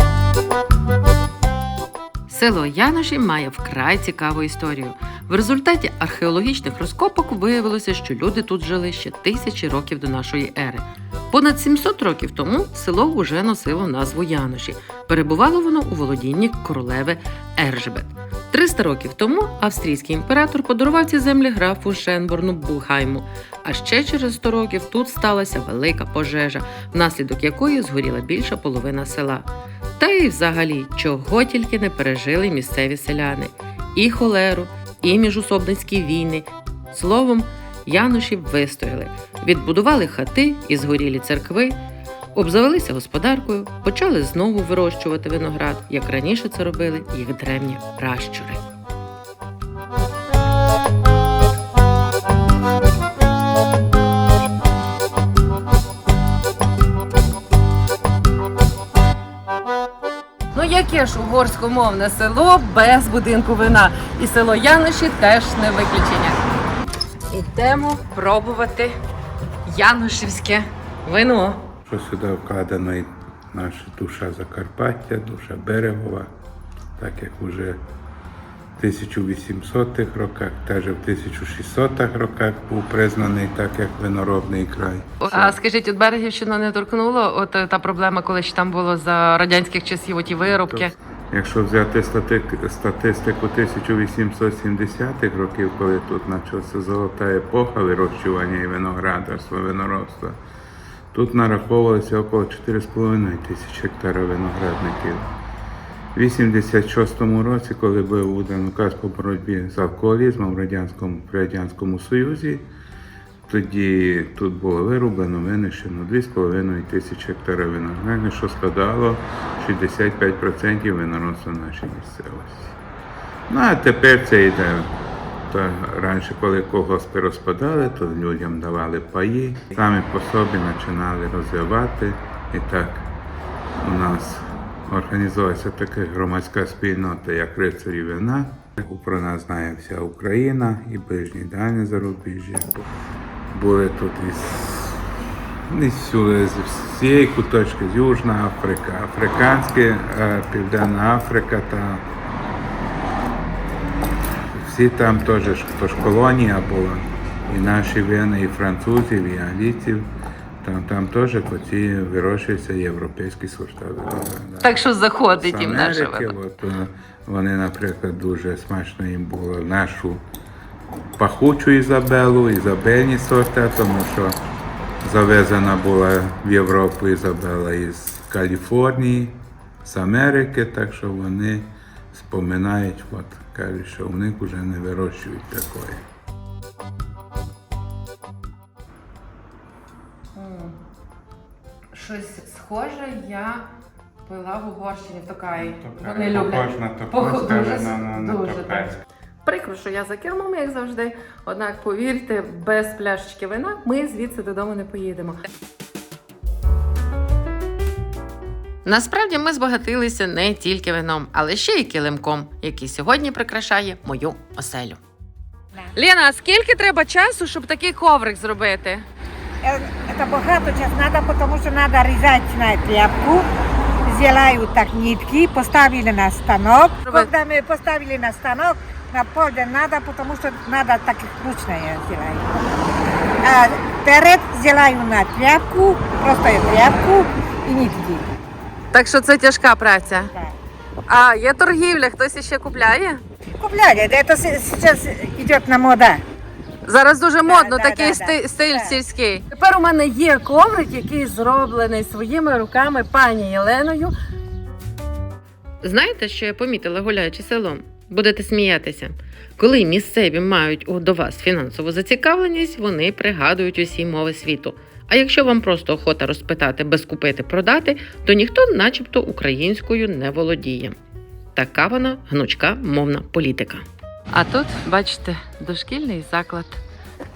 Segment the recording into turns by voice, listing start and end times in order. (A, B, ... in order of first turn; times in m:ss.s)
0:02.3-0:29.5 A
0:30.0-0:41.8 A
0:42.3-0:48.6 A
1:00.5-1:06.4 A
1:07.3-1:08.9 A
1:09.6-1:11.6 A
1:11.8-1:16.3 B
1:17.0-1:17.8 B
1:18.8-1:25.6 B
1:25.2-1:30.9 A
1:30.5-1:40.4 B
1:41.1-1:45.3 B
1:46.1-1:52.7 B
1:53.5-2:02.7 B
2:03.5-2:04.9 B
2:05.5-2:13.1 B
2:13.8-2:22.8 B
2:23.5-2:25.0 B
2:25.7-2:32.0 B
2:34.5-2:40.1 B
2:40.6-2:50.2 B
2:44.6-2:46.4 A
2:51.2-2:54.4 B
2:55.0-3:06.0 B
3:10.3-3:10.8 A
3:11.9-3:13.6 A
3:14.2-3:18.9 A
3:15.6-3:19.0 B
3:19.4-3:25.4 A
3:28.8-3:35.0 A
3:35.9-3:39.0 A
3:39.6-3:43.5 C
3:44.0-3:52.8 C
3:47.0-3:47.3 A
3:53.4-3:58.3 C
3:58.9-4:00.3 A
4:01.1-4:03.2 A
4:03.6-4:06.2 C
4:06.8-4:14.1 A
4:07.4-4:09.0 C
4:15.8-4:31.0 A
4:31.5-4:36.8 A